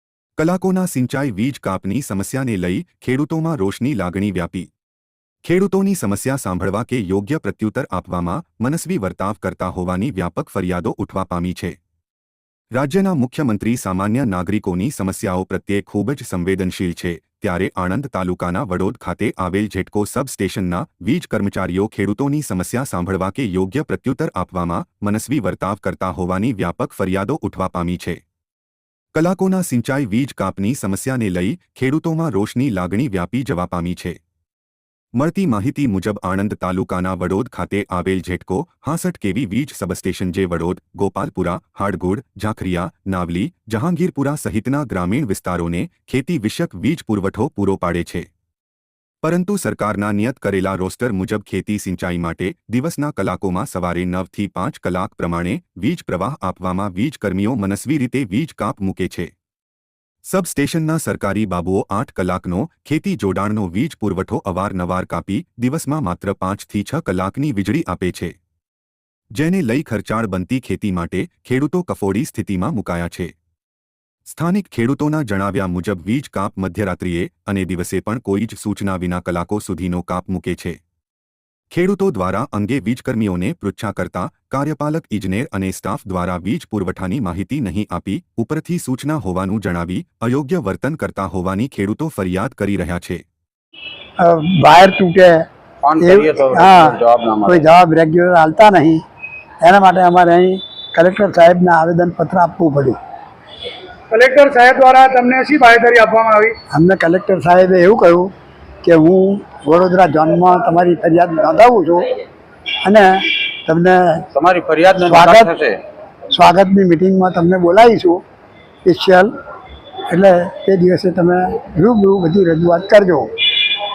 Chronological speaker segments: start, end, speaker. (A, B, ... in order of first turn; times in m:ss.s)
0:00.4-0:04.7 A
0:05.4-0:11.8 A
0:12.7-0:28.2 A
0:29.1-0:34.2 A
0:35.2-0:48.3 A
0:49.2-0:59.3 A
1:00.3-1:08.3 A
1:09.3-1:13.3 A
1:14.3-1:20.8 A
1:21.7-1:33.2 A
1:34.2-1:35.4 B
1:35.8-1:37.6 C
1:36.0-1:39.0 B
1:39.6-1:43.0 B
1:44.1-1:46.6 D
1:46.7-1:48.3 B
1:48.8-1:52.1 B
1:52.8-1:53.1 B
1:53.6-1:54.2 B
1:54.3-1:55.8 C
1:55.0-1:55.5 B
1:56.3-1:58.2 B
1:58.8-1:59.3 B
2:00.1-2:03.3 B